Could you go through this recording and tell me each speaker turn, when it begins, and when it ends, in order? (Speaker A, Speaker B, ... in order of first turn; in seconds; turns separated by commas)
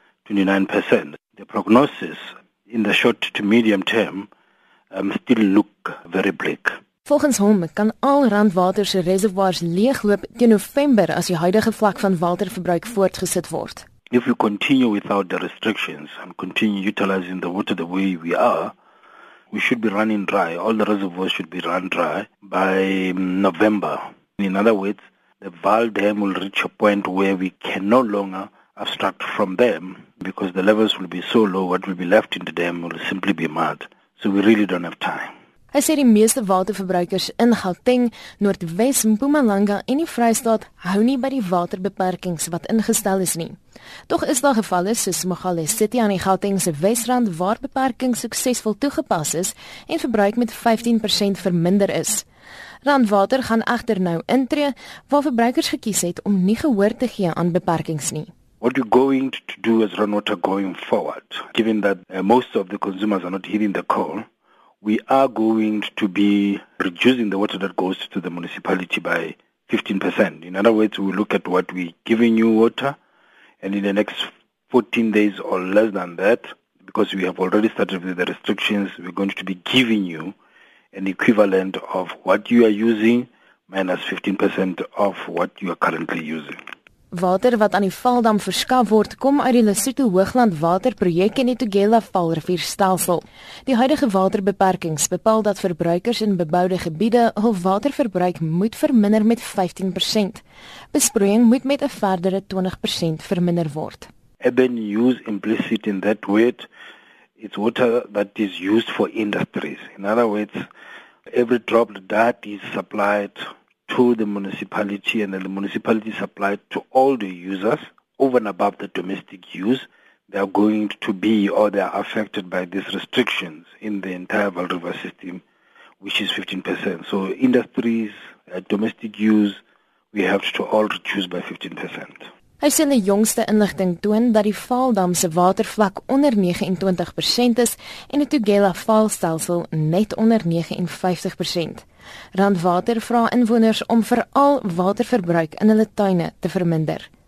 Speaker A: 0.3-4.3, Speaker A: 4.9-6.8, Speaker B: 7.1-13.9, Speaker A: 14.1-18.7, Speaker A: 19.5-35.3, Speaker B: 35.7-43.6, Speaker B: 44.1-52.2, Speaker B: 52.8-58.3, Speaker A: 58.6-64.3, Speaker A: 64.8-73.0, Speaker A: 73.6-80.3, Speaker A: 80.9-86.6, Speaker B: 87.1-104.1, Speaker A: 104.4-106.7, Speaker A: 107.4-110.7, Speaker A: 111.3-125.4, Speaker A: 126.0-129.6, Speaker A: 130.1-132.3, Speaker B: 132.6-147.1